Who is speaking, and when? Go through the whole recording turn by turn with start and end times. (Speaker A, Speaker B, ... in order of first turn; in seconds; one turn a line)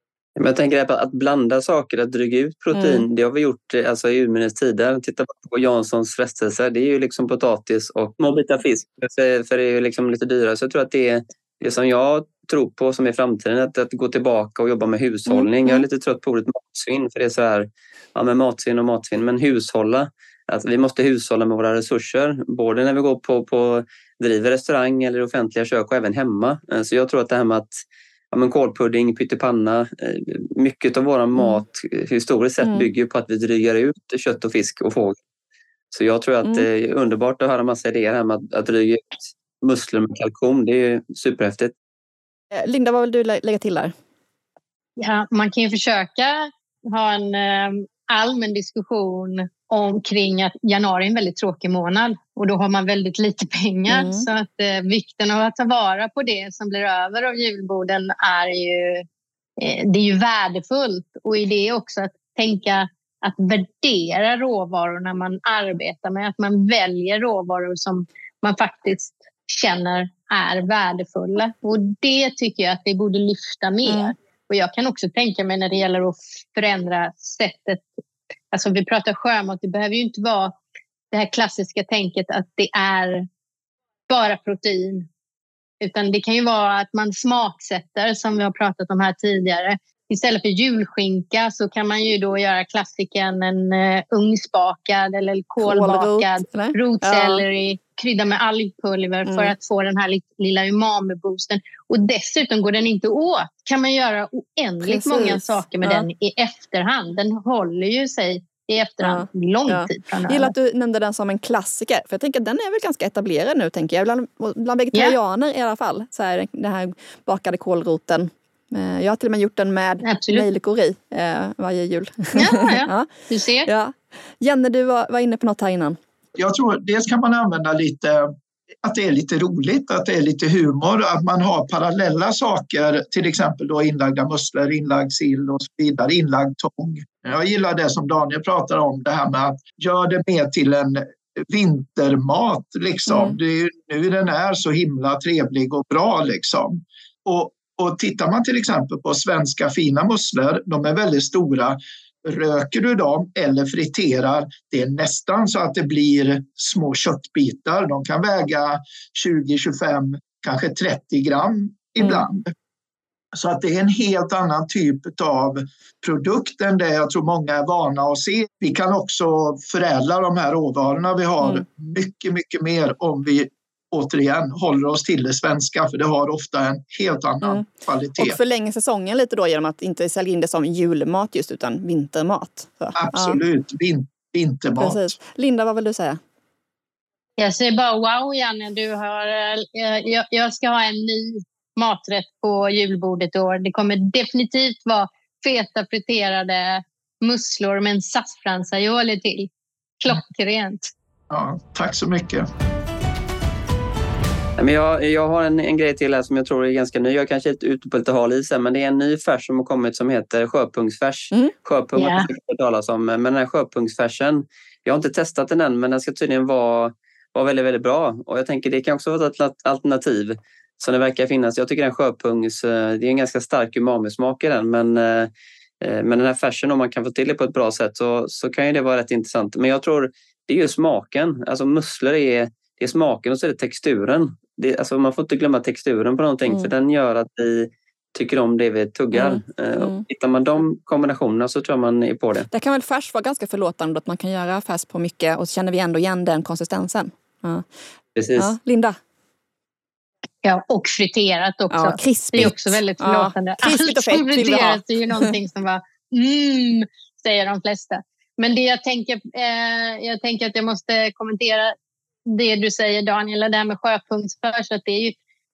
Speaker A: 0.4-35.2
Speaker B: 2.7-3.0
Speaker B: 15.3-15.8
Speaker B: 31.4-31.6
Speaker B: 32.6-32.9
Speaker A: 35.9-41.7
Speaker B: 42.5-43.9
Speaker C: 45.0-59.0
Speaker B: 53.9-54.2
Speaker C: 59.6-77.9
Speaker B: 73.8-74.1
Speaker C: 78.5-80.6
Speaker C: 81.1-83.2
Speaker C: 84.1-85.1
Speaker C: 85.8-110.5
Speaker B: 95.6-97.4
Speaker B: 99.2-99.5
Speaker B: 104.8-106.1
Speaker B: 109.0-123.1
Speaker C: 120.0-120.5
Speaker C: 122.4-123.7
Speaker B: 123.7-126.0
Speaker D: 126.4-128.3
Speaker D: 128.8-162.5
Speaker B: 143.1-143.4
Speaker B: 162.0-162.3
Speaker D: 163.3-178.4
Speaker B: 178.2-183.4
Speaker D: 182.9-185.1
Speaker B: 184.8-186.2
Speaker C: 187.4-200.9
Speaker D: 201.3-202.5
Speaker A: 204.6-242.5
Speaker C: 212.0-212.3
Speaker B: 236.5-236.7
Speaker B: 239.1-240.0
Speaker B: 242.5-247.7
Speaker A: 248.2-248.5
Speaker B: 248.4-249.0
Speaker C: 250.4-261.7
Speaker B: 251.7-255.3
Speaker C: 262.3-265.1